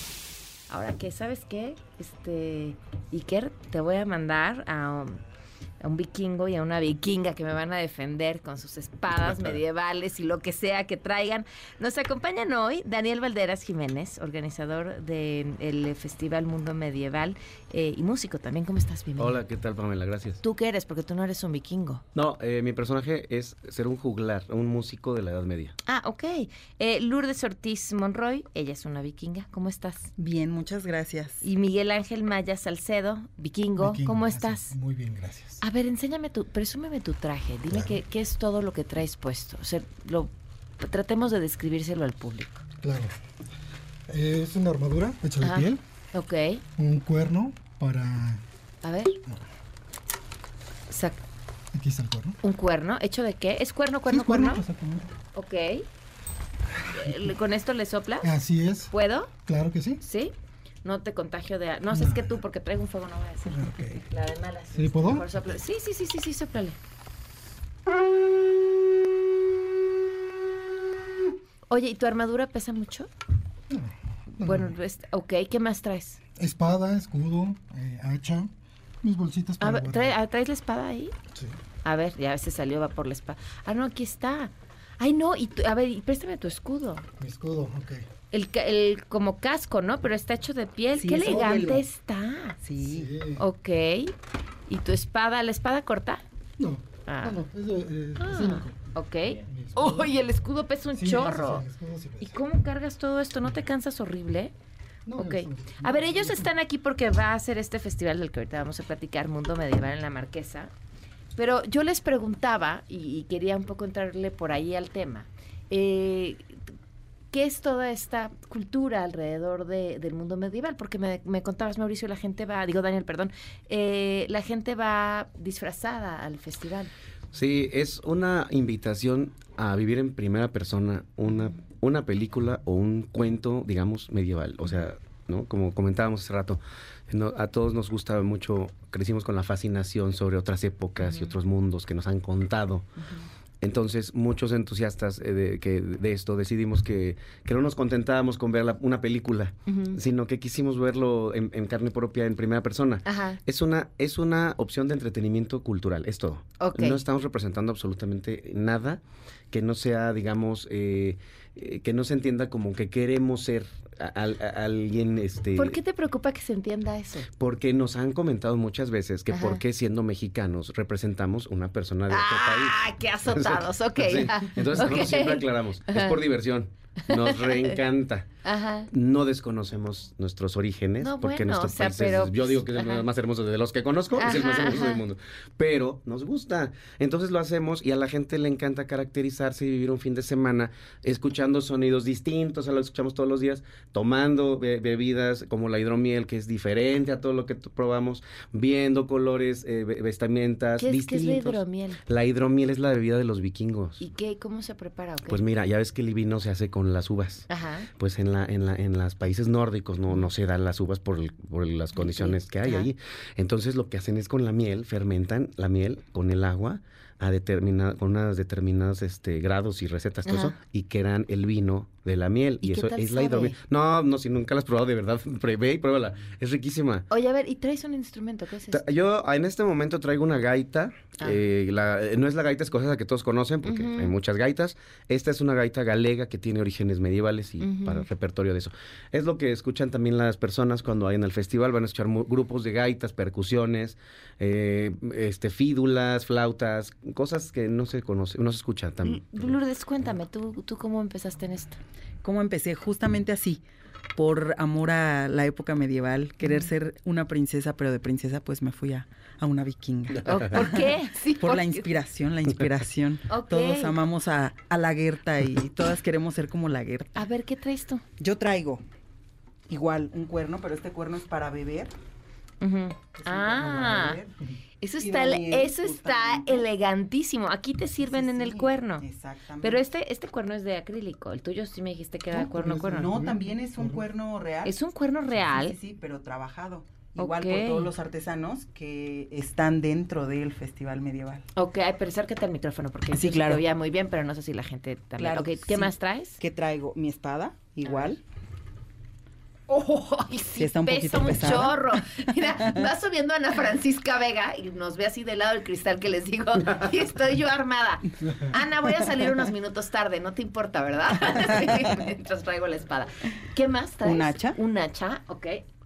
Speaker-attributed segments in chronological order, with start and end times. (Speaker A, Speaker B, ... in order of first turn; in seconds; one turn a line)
Speaker A: 0.7-5.2
Speaker A: 5.8-19.4
Speaker B: 19.2-20.4
Speaker A: 20.4-22.0
Speaker B: 22.1-25.7
Speaker A: 25.9-30.1
Speaker C: 30.2-31.4
Speaker A: 31.4-34.7
Speaker D: 33.8-35.6
Speaker A: 35.6-42.6
Speaker D: 37.7-38.0
Speaker D: 42.8-43.1
Speaker D: 44.1-45.8
Speaker A: 45.4-46.6
Speaker D: 46.8-48.4
Speaker A: 48.8-49.2
Speaker A: 50.9-51.2
Speaker D: 51.7-52.4
Speaker A: 52.4-54.6
Speaker D: 54.1-55.1
Speaker A: 55.3-55.9
Speaker A: 56.9-58.3
Speaker D: 58.2-58.9
Speaker A: 58.9-59.3
Speaker D: 59.5-60.0
Speaker A: 60.0-60.3
Speaker A: 60.8-66.8
Speaker D: 61.9-62.4
Speaker D: 63.5-64.0
Speaker D: 64.7-65.3
Speaker A: 71.7-73.1
Speaker D: 73.7-74.8
Speaker A: 74.4-76.2
Speaker D: 76.4-78.5
Speaker D: 79.0-80.2
Speaker A: 79.6-81.1
Speaker A: 81.8-87.1
Speaker D: 87.2-88.1
Speaker A: 88.3-92.6
Speaker C: 91.0-91.8
Speaker D: 91.2-91.8
Speaker C: 92.6-93.1
Speaker D: 92.8-93.5
Speaker A: 93.4-94.1
Speaker A: 94.7-96.2
Speaker D: 96.6-100.1
Speaker A: 97.1-97.4
Speaker A: 98.2-101.7
Speaker D: 101.0-102.4
Speaker A: 102.2-104.5
Speaker D: 105.0-106.5
Speaker A: 105.2-110.7
Speaker A: 111.4-116.6
Speaker A: 117.3-126.9
Speaker B: 127.3-142.9
Speaker A: 141.0-141.3
Speaker B: 143.6-159.0
Speaker A: 149.7-150.0
Speaker A: 153.1-153.4
Speaker A: 156.6-157.0
Speaker B: 159.5-165.8
Speaker A: 165.6-167.3
Speaker B: 167.4-172.8
Speaker A: 169.3-169.6
Speaker A: 172.1-176.2
Speaker B: 173.3-178.3
Speaker A: 177.0-177.8
Speaker A: 178.4-178.9
Speaker B: 178.9-204.0
Speaker A: 181.0-183.1
Speaker A: 184.1-185.0
Speaker A: 200.8-202.0
Speaker A: 204.0-205.4
Speaker B: 205.3-207.5
Speaker A: 207.5-207.9
Speaker B: 208.0-227.0
Speaker A: 212.0-212.9
Speaker A: 220.2-220.6
Speaker A: 222.6-223.6
Speaker A: 227.1-228.8
Speaker B: 228.7-249.6
Speaker A: 233.7-234.1
Speaker A: 237.6-238.1
Speaker A: 249.0-251.8
Speaker C: 252.2-253.6
Speaker C: 254.2-260.9
Speaker A: 256.4-256.7
Speaker A: 260.2-261.9
Speaker C: 261.4-267.2
Speaker A: 263.3-264.0
Speaker A: 267.1-268.0
Speaker C: 268.2-268.8
Speaker C: 269.7-271.9
Speaker A: 272.6-274.2
Speaker C: 273.3-274.3
Speaker A: 274.8-279.1
Speaker C: 275.0-276.6
Speaker C: 278.2-279.9
Speaker A: 279.6-283.1
Speaker C: 282.4-284.7
Speaker D: 282.6-284.1
Speaker A: 284.6-285.8
Speaker C: 285.4-291.4
Speaker A: 287.2-287.9
Speaker A: 291.6-296.4
Speaker C: 293.2-293.6
Speaker C: 295.2-295.9
Speaker C: 296.4-298.2
Speaker A: 299.7-315.6
Speaker C: 300.6-301.8
Speaker C: 314.1-314.6